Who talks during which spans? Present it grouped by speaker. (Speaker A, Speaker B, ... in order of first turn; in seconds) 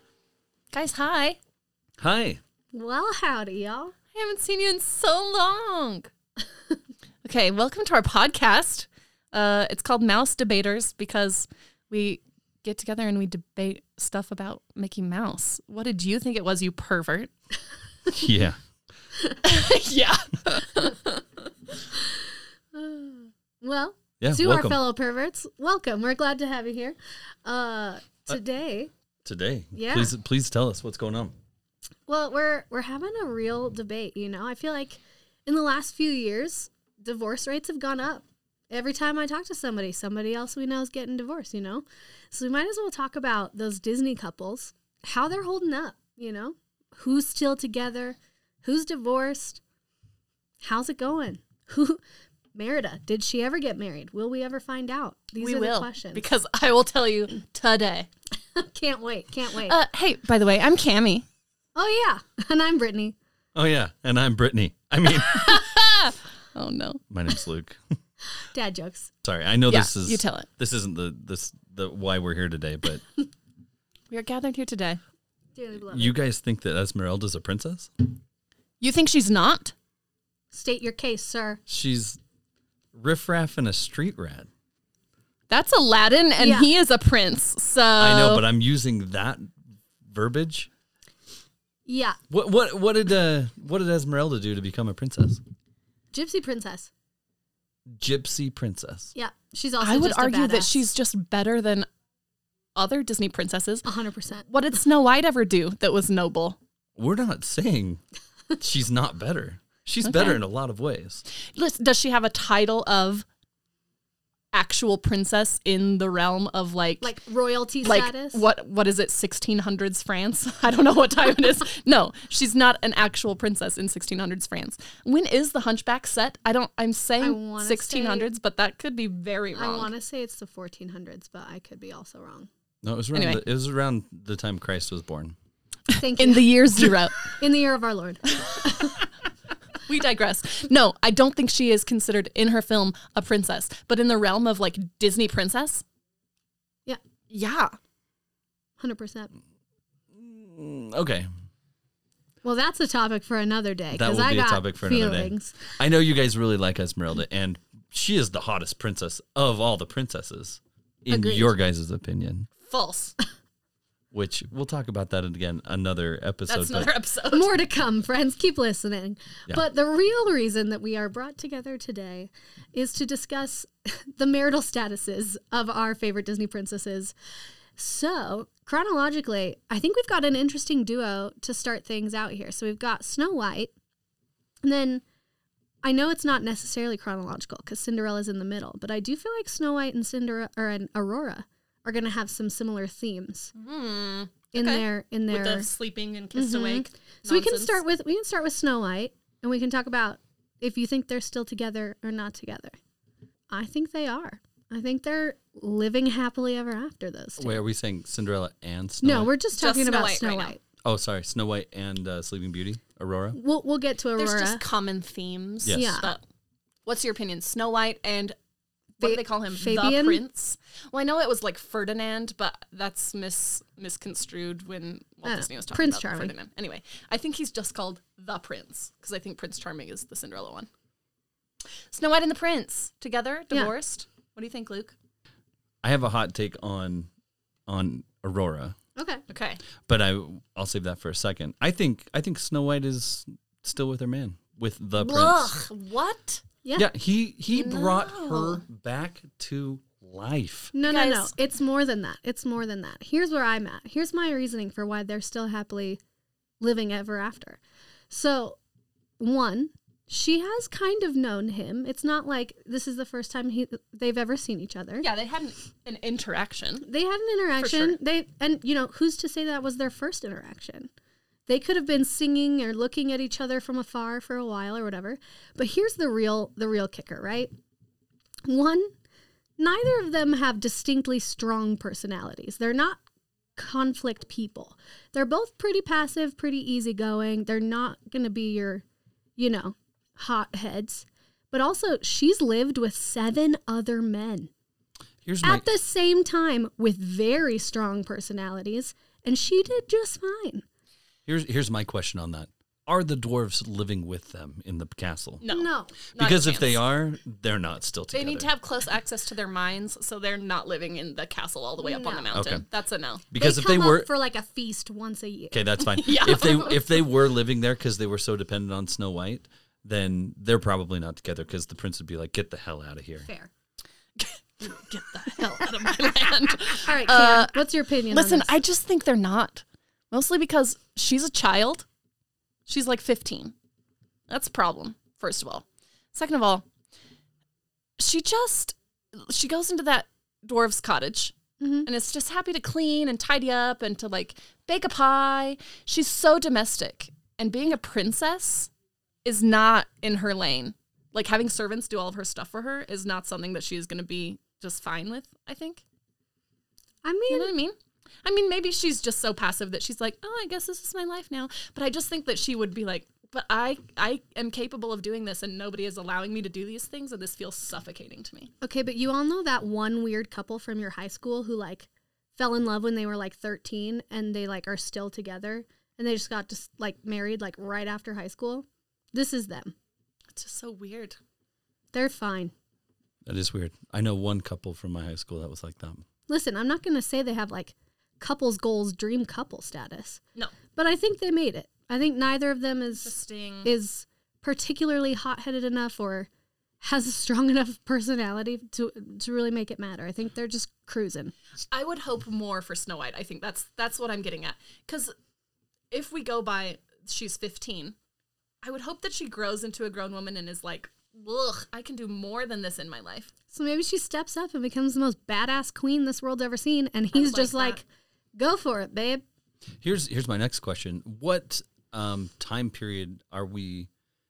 Speaker A: 0.7-1.4, 4.1-6.1, 7.2-17.3, 19.4-21.2, 55.4-58.1, 59.6-61.2, 65.1-67.0, 69.7-70.5, 74.1-75.0, 78.8-79.7, 85.5-88.4, 99.8-101.9, 102.8-103.9, 104.5-106.6, 110.1-110.4, 111.5-113.2, 114.5-117.1, 117.8-129.9, 133.1-133.4, 136.2-137.2, 139.8-145.8, 147.3-147.7, 162.6-163.1, 166.5-167.5, 193.5-197.8, 209.5-210.5, 214.2-216.2, 216.8-218.3, 219.0-230.7, 231.9-234.9, 239.3-239.6, 245.0-246.4, 247.6-248.6, 250.8-251.3, 265.0-266.9, 267.6-267.9, 305.4-306.8, 308.1-313.2, 315.9-317.0, 324.2-331.9, 332.7-333.5, 334.3-336.6, 338.0-341.3, 341.9-348.7, 349.2-355.8, 357.3-368.5, 380.3-381.2, 393.0-393.7, 401.7-405.1, 405.9-407.9, 408.6-413.3, 417.1-417.8
Speaker B: 2.0-2.4, 18.1-18.6, 24.2-24.8, 29.2-31.3, 63.5-65.7, 67.1-67.8, 69.2-73.0, 75.9-77.9, 81.7-82.2, 82.9-84.5, 88.0-90.7, 92.3-95.4, 97.9-99.1, 107.0-108.0, 108.6-111.2, 132.8-135.3, 150.1-151.3, 153.9-162.5, 164.1-166.9, 207.4-209.3, 210.8-213.4, 215.6-216.0, 235.8-237.1, 237.7-238.8, 239.8-245.5, 246.8-250.7, 295.2-295.7, 301.2-305.4, 306.1-308.5, 312.3-312.6, 313.3-314.1, 315.5-323.3, 383.2-386.0, 419.8-423.9
Speaker C: 2.7-3.9, 22.7-28.9, 29.7-30.1, 32.1-49.6, 50.6-52.0, 52.5-56.3, 58.5-59.8, 61.8-63.1, 68.4-69.1, 75.5-76.1, 80.5-81.6, 86.4-86.7, 91.8-92.2, 96.1-96.9, 99.1-100.8, 103.8-104.5, 117.0-118.4, 127.2-128.3, 129.5-132.5, 135.9-136.6, 137.3-139.0, 148.8-149.3, 152.4-155.6, 161.1-161.5, 167.3-177.1, 177.8-183.7, 184.6-185.0, 185.8-193.5, 194.5-195.7, 196.3-202.8, 203.5-207.6, 209.0-210.6, 213.3-214.6, 215.7-216.1, 219.0-220.2, 225.2-226.3, 238.9-239.2, 246.6-246.9, 250.7-256.0, 256.6-258.6, 259.2-265.1, 266.8-270.9, 271.5-277.5, 278.5-278.9, 279.6-283.0, 283.6-288.8, 289.4-294.5, 295.4-300.6, 305.5-305.9, 311.8-312.3, 313.3-315.7, 323.2-323.5, 326.8-328.6, 341.6-341.9, 357.0-357.5, 368.6-379.7, 381.9-382.5, 386.3-390.2, 390.7-396.3, 396.8-401.3, 413.5-417.8, 418.4-419.2